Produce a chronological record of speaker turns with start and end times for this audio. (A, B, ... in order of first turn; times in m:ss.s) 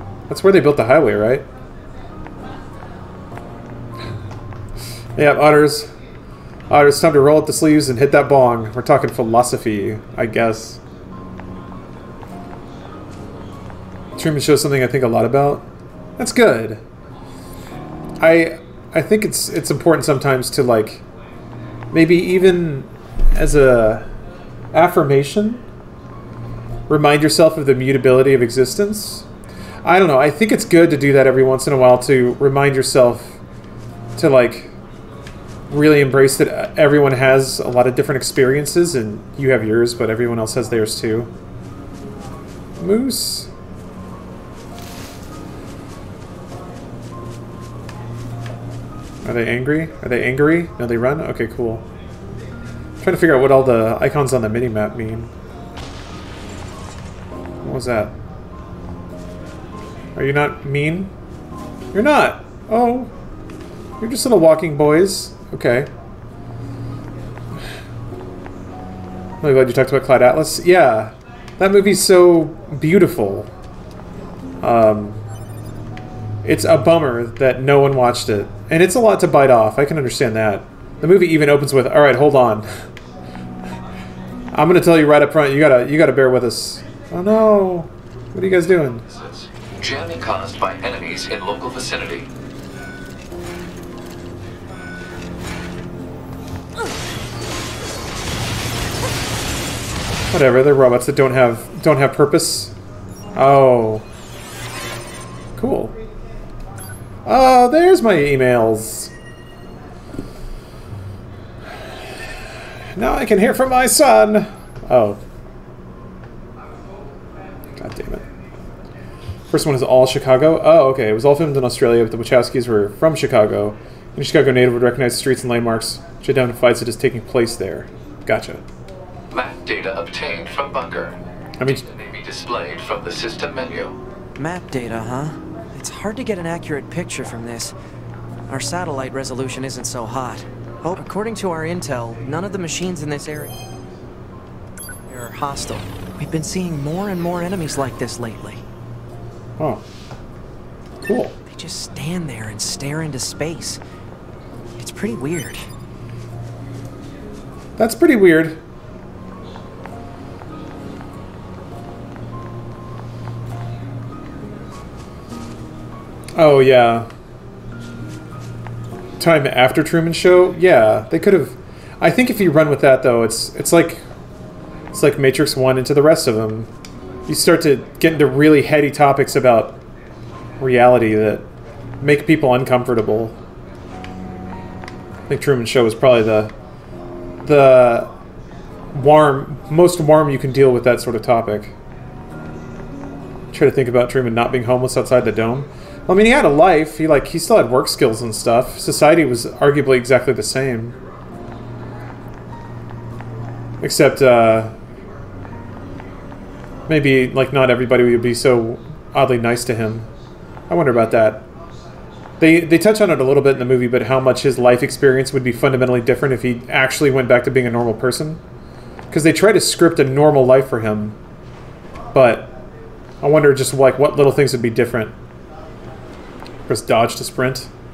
0:00.3-0:01.4 A
0:05.2-0:05.9 A
0:06.7-0:10.8 A
0:14.2-0:16.8 A
0:18.2-0:21.0 A
0:21.9-0:24.1 A
0:24.7-0:25.6 A
0:26.9-0:29.3 A
0:29.8-0:33.4 A
0:34.2-0:34.7 A
0:35.7-0:41.3 A
0:42.8-0:43.5 A
0:49.2-0:51.8 A
0:53.0-0:55.3 A
0:57.6-0:58.1 A
1:00.2-1:01.1 A
1:01.9-1:03.1 A
1:04.0-1:05.9 A
1:09.4-1:13.5 A
1:14.6-1:15.2 A
1:16.4-1:22.7 A
1:24.5-1:29.0 A
1:29.1-1:32.3 B
1:40.3-1:42.7 A
1:43.3-1:44.0 A
1:45.6-1:45.9 A
1:47.2-1:49.1 A
1:52.9-1:55.2 A
1:57.8-1:58.2 A
1:59.5-2:08.6 A
2:09.3-2:14.0 B
2:11.6-2:11.8 A
2:14.4-2:17.7 C
2:18.5-2:23.5 C
2:25.1-2:28.6 C
2:29.6-2:29.8 A
2:31.0-2:31.4 A
2:31.4-2:33.8 C
2:34.8-2:35.7 C
2:37.8-2:38.6 A
2:46.3-2:47.1 A
2:49.2-2:54.0 A
2:54.9-2:56.7 A
2:57.2-2:59.8 A
3:00.6-3:01.5 A
3:02.0-3:03.4 A
3:05.3-3:06.5 A
3:07.4-3:08.1 A
3:08.9-3:11.7 A
3:13.5-3:21.0 A
3:23.8-3:24.7 A
3:26.9-3:30.1 A
3:30.7-3:31.4 A
3:32.4-3:38.4 A
3:39.1-3:41.2 A
3:42.1-3:42.5 A
3:43.2-3:45.1 A
3:46.7-3:47.7 A